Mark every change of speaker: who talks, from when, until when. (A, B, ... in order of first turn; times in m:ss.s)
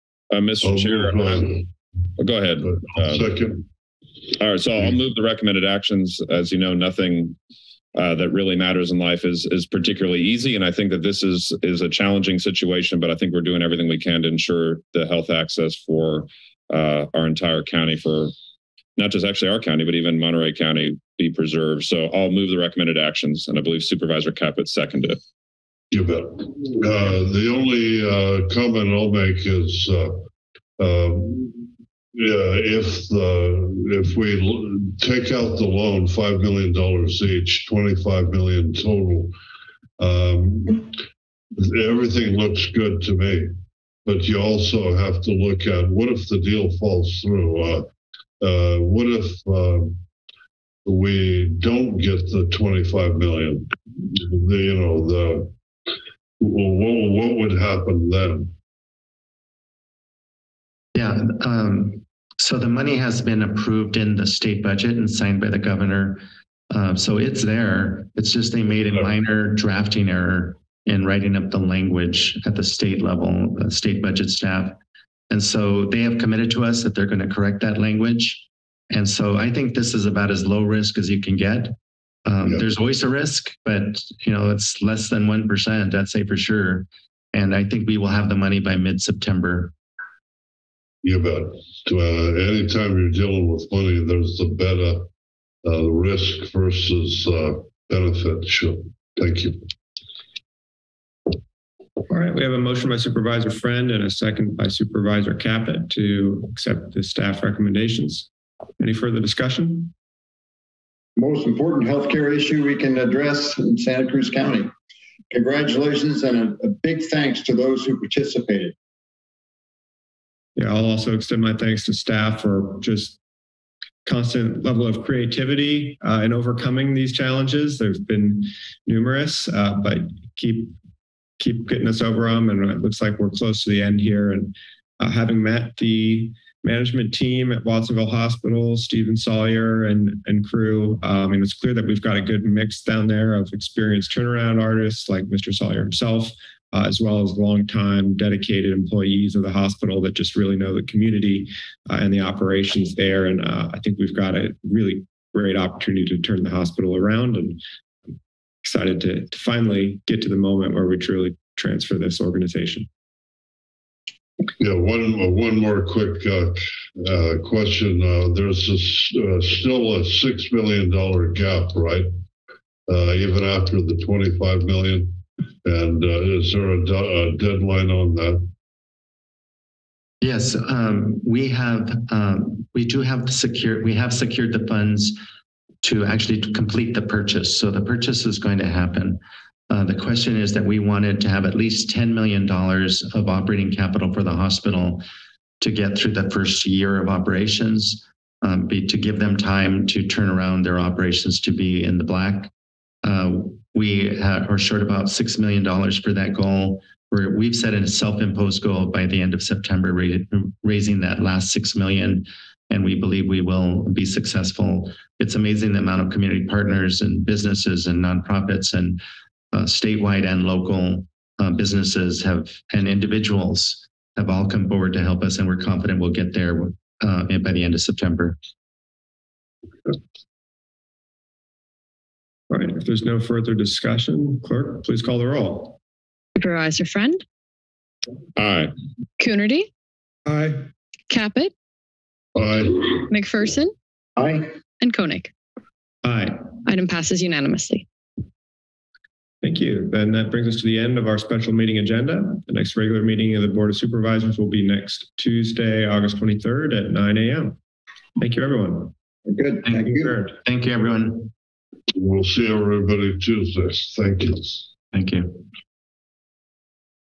0:00.3-0:01.6 A
0:00.6-0:01.6 B
0:02.2-0:03.3 A
0:02.6-0:03.6 B
0:04.4-0:07.4 A
0:07.9-0:18.3 A
0:19.0-0:25.2 A
0:25.9-0:30.2 B
0:30.8-0:39.3 B
0:40.0-0:40.9 B
0:41.6-0:43.5 B
0:44.0-0:47.9 B
0:48.4-0:50.0 B
0:50.8-0:55.5 B
0:56.4-0:58.5 B
1:00.9-1:14.8 C
1:15.3-1:29.7 C
1:31.0-1:35.1 B
1:35.6-1:39.6 B
1:42.1-1:48.3 D
1:48.8-1:49.9 D
1:51.2-1:54.7 E
1:55.3-1:58.7 E
2:00.6-2:03.2 D
2:04.0-2:10.8 D
2:11.4-2:37.6 D
2:38.6-2:42.9 D
2:44.6-2:52.1 B
2:52.9-2:58.5 B
3:00.2-3:05.2 C
3:05.8-3:09.2 C
3:09.7-3:15.0 C
3:15.6-3:22.5 C
3:23.0-3:39.0 C
3:39.5-3:48.4 C
3:52.5-3:55.8 D
3:56.4-3:57.2 F
3:58.4-3:58.7 A
3:59.2-3:59.7 F
4:00.3-4:00.6 D
4:01.1-4:01.5 F
4:02.3-4:03.0 B
4:03.0-4:03.7 F
4:04.8-4:05.3 F
4:06.0-4:06.4 D
4:06.6-4:07.8 F
4:09.4-4:17.6 D
4:18.2-4:18.9 D
4:19.3-4:20.1 E
4:19.7-4:20.3 D
4:19.7-4:21.3 C
4:21.9-4:24.7 B
4:24.9-4:25.4 C